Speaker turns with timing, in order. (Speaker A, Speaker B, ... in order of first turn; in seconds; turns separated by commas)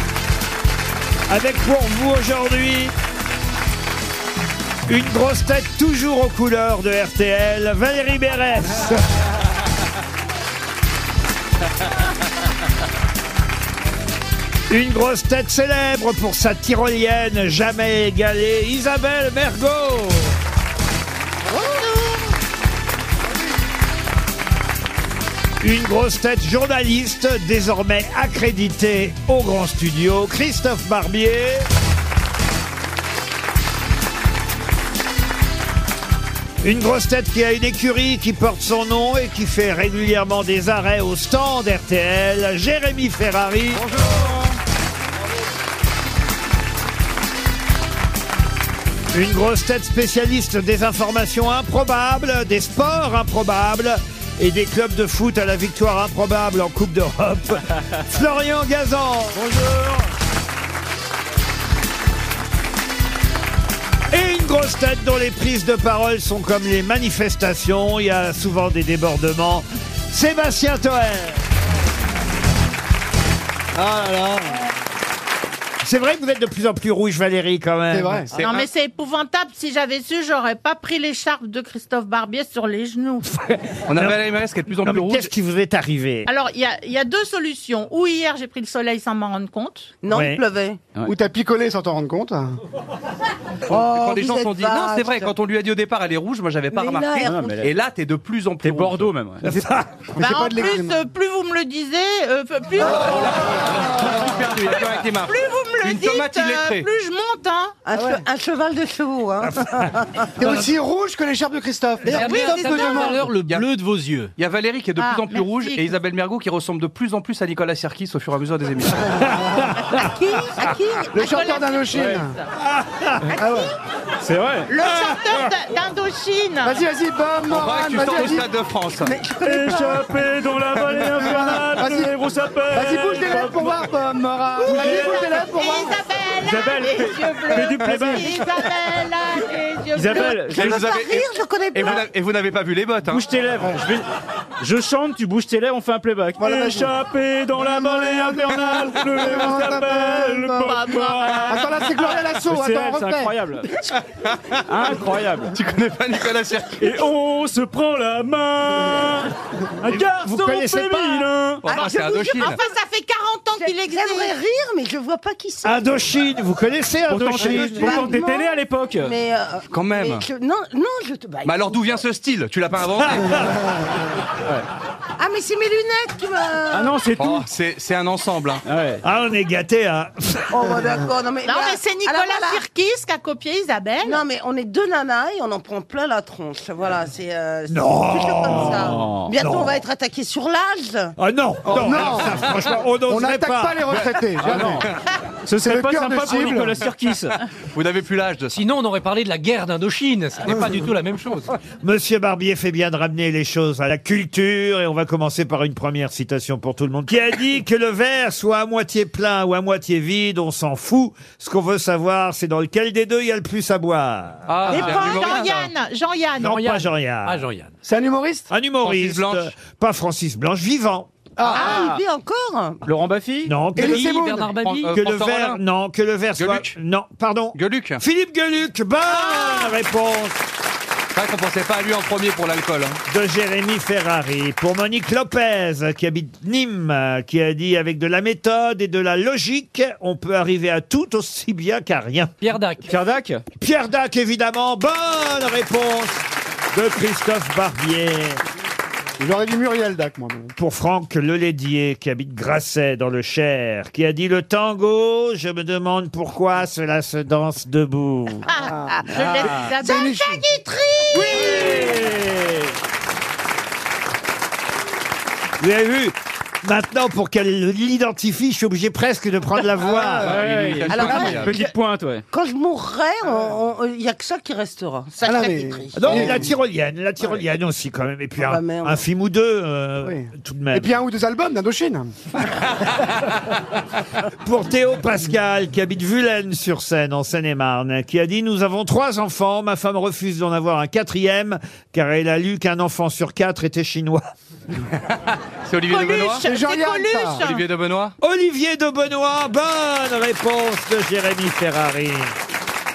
Speaker A: 1.3-2.9, Speaker A: 4.9-9.0, Speaker A: 14.7-20.4, Speaker B: 21.6-22.2, Speaker A: 25.6-31.7, Speaker A: 36.6-43.9, Speaker A: 49.1-59.4, Speaker C: 59.4-60.0, Speaker A: 64.1-71.4, Speaker D: 73.8-74.6, Speaker A: 75.8-78.3, Speaker D: 77.9-78.3, Speaker E: 78.3-78.7, Speaker B: 78.4-83.3, Speaker A: 83.3-84.2, Speaker E: 83.9-85.3, Speaker A: 84.8-86.3, Speaker B: 86.2-89.9, Speaker F: 90.0-90.8, Speaker A: 90.1-90.4, Speaker D: 91.0-92.6, Speaker F: 93.7-95.3, Speaker E: 93.7-99.0, Speaker F: 96.7-97.7, Speaker C: 97.2-97.7, Speaker C: 98.6-99.5, Speaker A: 99.4-99.9, Speaker D: 99.5-101.0, Speaker B: 100.2-103.5, Speaker E: 103.5-106.8, Speaker B: 105.2-107.8, Speaker F: 107.8-110.3, Speaker A: 109.5-109.9, Speaker D: 110.4-113.3, Speaker G: 112.0-114.3, Speaker B: 112.1-113.2, Speaker E: 114.4-119.3, Speaker B: 115.0-115.9, Speaker D: 119.2-119.6, Speaker A: 119.4-120.0, Speaker F: 119.9-121.1, Speaker D: 121.1-122.3, Speaker B: 121.2-121.7, Speaker C: 121.9-122.2, Speaker A: 122.6-123.4, Speaker D: 123.4-123.7, Speaker C: 124.2-124.7, Speaker B: 124.7-126.8, Speaker D: 126.6-128.5, Speaker E: 127.5-129.1, Speaker D: 129.1-130.0, Speaker C: 129.3-133.9, Speaker D: 130.9-132.1, Speaker D: 132.7-136.0, Speaker B: 134.6-140.4, Speaker C: 134.7-135.3, Speaker C: 136.4-138.5, Speaker D: 137.8-138.2, Speaker C: 139.9-140.8, Speaker F: 140.1-142.0, Speaker E: 140.5-143.2, Speaker C: 143.1-144.0, Speaker C: 144.6-151.8, Speaker D: 146.4-146.9, Speaker D: 147.5-150.9, Speaker B: 150.6-151.6, Speaker D: 151.5-153.3, Speaker C: 152.4-153.7, Speaker E: 154.2-154.9, Speaker C: 154.7-155.5, Speaker E: 155.5-157.0, Speaker C: 156.8-159.3, Speaker C: 159.8-161.6, Speaker A: 159.9-161.2, Speaker E: 161.6-162.6, Speaker F: 161.7-162.5, Speaker B: 161.8-164.3, Speaker F: 163.6-166.0, Speaker A: 165.6-168.1, Speaker C: 167.1-169.1, Speaker F: 167.3-172.0, Speaker E: 169.7-170.2, Speaker E: 171.4-173.3, Speaker A: 173.0-173.5, Speaker F: 175.2-177.0, Speaker C: 176.7-177.4, Speaker E: 177.2-178.6, Speaker C: 178.6-179.0, Speaker A: 179.0-180.4, Speaker F: 180.5-182.6, Speaker B: 181.4-184.2, Speaker F: 184.0-191.1, Speaker A: 187.7-189.8, Speaker C: 188.5-189.3, Speaker A: 191.2-193.8, Speaker D: 191.6-192.4, Speaker D: 193.1-194.8, Speaker C: 194.4-194.9, Speaker C: 195.5-197.4, Speaker D: 195.6-196.9, Speaker E: 197.7-198.6, Speaker G: 198.5-201.5, Speaker A: 201.8-215.0, Speaker E: 214.5-215.7, Speaker B: 214.7-216.7, Speaker A: 216.4-217.4, Speaker G: 216.4-217.7, Speaker D: 217.8-218.5, Speaker A: 218.5-221.1, Speaker E: 218.8-219.5, Speaker D: 221.4-221.9, Speaker F: 221.4-222.8, Speaker C: 221.5-222.0, Speaker C: 222.8-223.7, Speaker A: 223.4-224.1, Speaker D: 223.8-224.5, Speaker G: 223.8-224.9, Speaker E: 224.6-225.6, Speaker A: 224.9-230.4, Speaker E: 226.4-226.7, Speaker E: 227.5-228.0, Speaker B: 229.1-229.7, Speaker E: 231.1-233.0, Speaker A: 233.1-242.4, Speaker G: 242.4-242.9, Speaker C: 242.9-243.4, Speaker A: 243.6-248.4, Speaker D: 249.2-250.5, Speaker A: 250.6-258.5, Speaker B: 258.5-261.9, Speaker D: 258.6-260.4, Speaker C: 259.4-259.7, Speaker C: 261.2-262.7, Speaker D: 261.4-261.7, Speaker A: 265.6-270.4, Speaker D: 269.7-271.6, Speaker C: 270.2-272.2, Speaker E: 270.2-271.6, Speaker F: 270.9-271.6, Speaker F: 272.3-276.5, Speaker D: 273.2-273.5, Speaker D: 275.2-276.5, Speaker A: 275.9-280.9, Speaker F: 278.4-279.0, Speaker D: 280.0-282.1, Speaker A: 284.4-294.2, Speaker E: 295.6-296.4, Speaker B: 295.9-297.6, Speaker D: 296.4-297.4, Speaker E: 297.4-298.1, Speaker A: 298.2-302.3